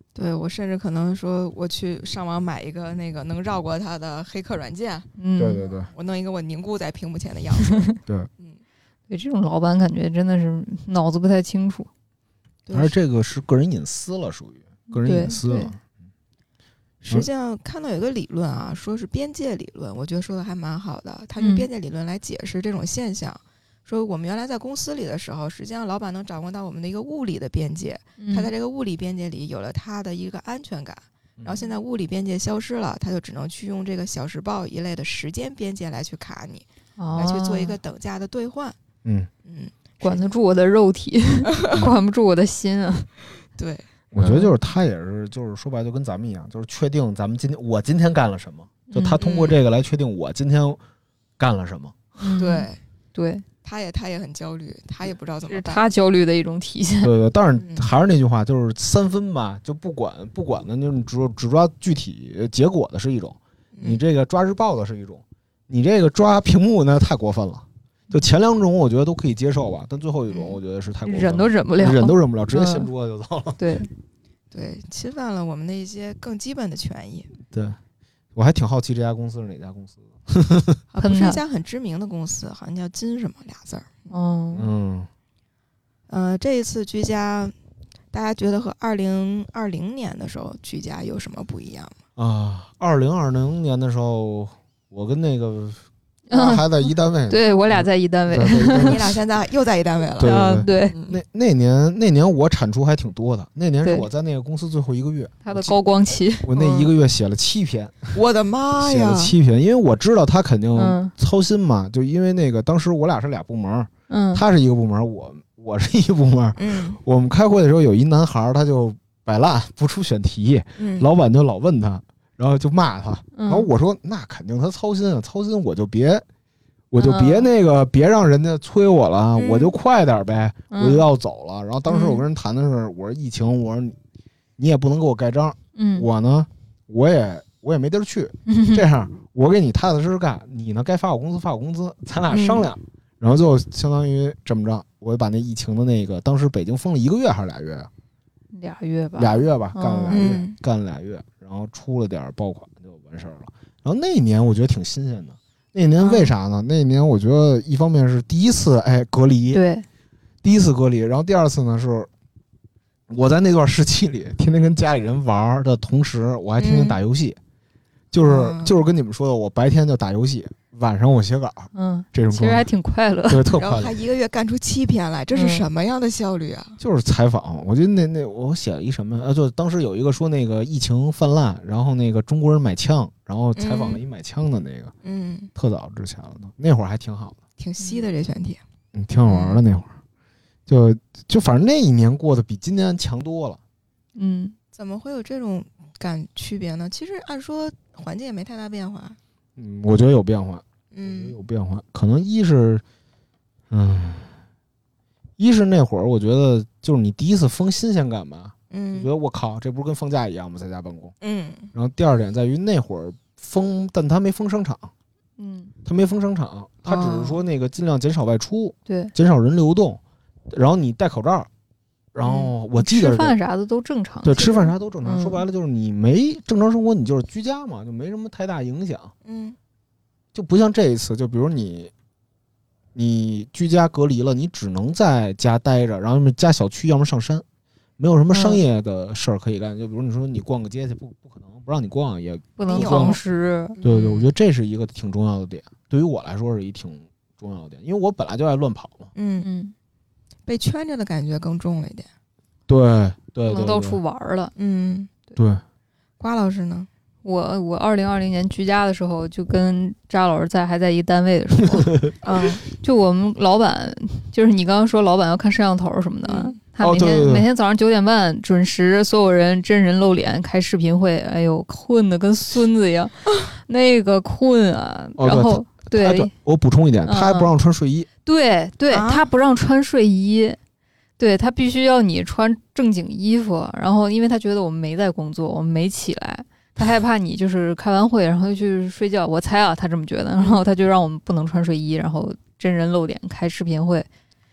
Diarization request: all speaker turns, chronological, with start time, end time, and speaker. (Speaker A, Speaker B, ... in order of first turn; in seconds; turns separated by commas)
Speaker A: 0.1-5.1, Speaker B: 5.2-5.7, Speaker C: 5.4-5.9, Speaker A: 5.8-8.6, Speaker B: 9.1-11.9, Speaker A: 12.7-12.9, Speaker C: 12.7-15.8, Speaker B: 14.9-15.7, Speaker A: 17.0-38.8, Speaker B: 21.4-21.7, Speaker B: 28.2-28.5, Speaker C: 31.4-31.7, Speaker B: 37.0-37.8, Speaker C: 39.0-39.3, Speaker A: 39.5-40.3, Speaker B: 40.0-43.1, Speaker A: 41.5-41.8, Speaker A: 43.6-43.9, Speaker C: 44.1-50.8, Speaker B: 44.2-44.5, Speaker B: 48.9-49.2, Speaker A: 49.2-49.6, Speaker C: 51.4-52.3, Speaker B: 52.2-53.4, Speaker A: 52.4-52.8, Speaker A: 53.6-55.9, Speaker B: 55.5-57.1, Speaker C: 57.0-73.6, Speaker A: 57.6-57.9, Speaker A: 63.7-64.0, Speaker A: 70.3-70.6, Speaker B: 71.0-72.9, Speaker B: 73.6-73.9, Speaker A: 74.5-77.3, Speaker C: 77.4-77.8, Speaker C: 78.3-80.8, Speaker A: 80.9-84.1, Speaker B: 81.0-81.4, Speaker B: 84.1-84.7, Speaker C: 84.5-85.1, Speaker A: 86.1-87.5, Speaker A: 88.1-92.0, Speaker C: 92.2-99.2, Speaker B: 96.3-99.0, Speaker A: 98.7-101.2, Speaker C: 100.2-105.7, Speaker B: 100.2-101.0, Speaker B: 105.4-106.5, Speaker C: 106.4-108.1, Speaker A: 106.5-106.9, Speaker A: 108.1-109.3, Speaker C: 108.8-126.2, Speaker B: 110.8-111.1, Speaker B: 114.1-114.4, Speaker A: 116.6-117.0, Speaker A: 120.8-121.1, Speaker B: 123.3-123.7, Speaker C: 126.9-134.0, Speaker B: 127.0-127.5, Speaker A: 129.3-129.7, Speaker B: 130.7-131.0, Speaker A: 131.9-132.2, Speaker C: 134.6-147.9, Speaker B: 135.8-136.1, Speaker B: 138.5-138.8, Speaker A: 142.3-142.7, Speaker B: 148.5-150.2, Speaker C: 149.2-159.6, Speaker A: 150.1-150.6, Speaker A: 156.0-156.3, Speaker B: 159.5-159.8, Speaker C: 160.4-162.1, Speaker C: 163.1-167.4, Speaker A: 166.6-167.0, Speaker C: 168.1-172.7, Speaker A: 168.2-168.7, Speaker B: 171.7-173.5, Speaker C: 173.3-174.0, Speaker A: 173.6-176.8, Speaker B: 175.3-175.6, Speaker C: 176.8-184.9, Speaker A: 183.6-184.0, Speaker A: 185.0-185.5, Speaker C: 185.5-187.4, Speaker A: 187.6-188.6, Speaker B: 187.8-188.1, Speaker C: 188.9-189.9, Speaker A: 189.2-189.6, Speaker C: 190.7-193.6, Speaker B: 194.2-194.5, Speaker A: 194.7-199.2, Speaker C: 199.6-202.8, Speaker A: 200.9-201.3, Speaker C: 203.7-204.3, Speaker C: 205.4-211.1, Speaker A: 208.7-209.1, Speaker A: 211.2-211.7, Speaker C: 211.7-214.9, Speaker B: 215.4-215.7, Speaker C: 215.8-221.5, Speaker A: 216.8-217.4, Speaker B: 218.9-219.1, Speaker C: 222.1-223.3, Speaker A: 222.2-222.5, Speaker B: 222.8-225.4, Speaker C: 224.2-229.1, Speaker A: 229.2-229.6, Speaker C: 230.3-231.9, Speaker C: 232.9-237.4, Speaker C: 238.0-243.2, Speaker B: 238.3-238.6, Speaker B: 242.6-243.8, Speaker A: 242.7-243.2, Speaker A: 243.8-244.3, Speaker C: 243.8-249.1, Speaker A: 249.1-249.5, Speaker B: 249.4-249.7, Speaker A: 250.5-252.1, Speaker C: 252.7-254.0, Speaker B: 253.5-254.5, Speaker A: 254.6-255.1, Speaker C: 255.3-255.6, Speaker A: 256.2-256.9, Speaker B: 257.2-261.9, Speaker A: 262.2-262.6, Speaker B: 262.7-276.3, Speaker A: 266.2-266.6, Speaker C: 266.8-267.5, Speaker C: 275.2-278.1, Speaker B: 277.1-277.5, Speaker B: 278.2-280.6, Speaker A: 278.9-279.3, Speaker B: 281.2-294.1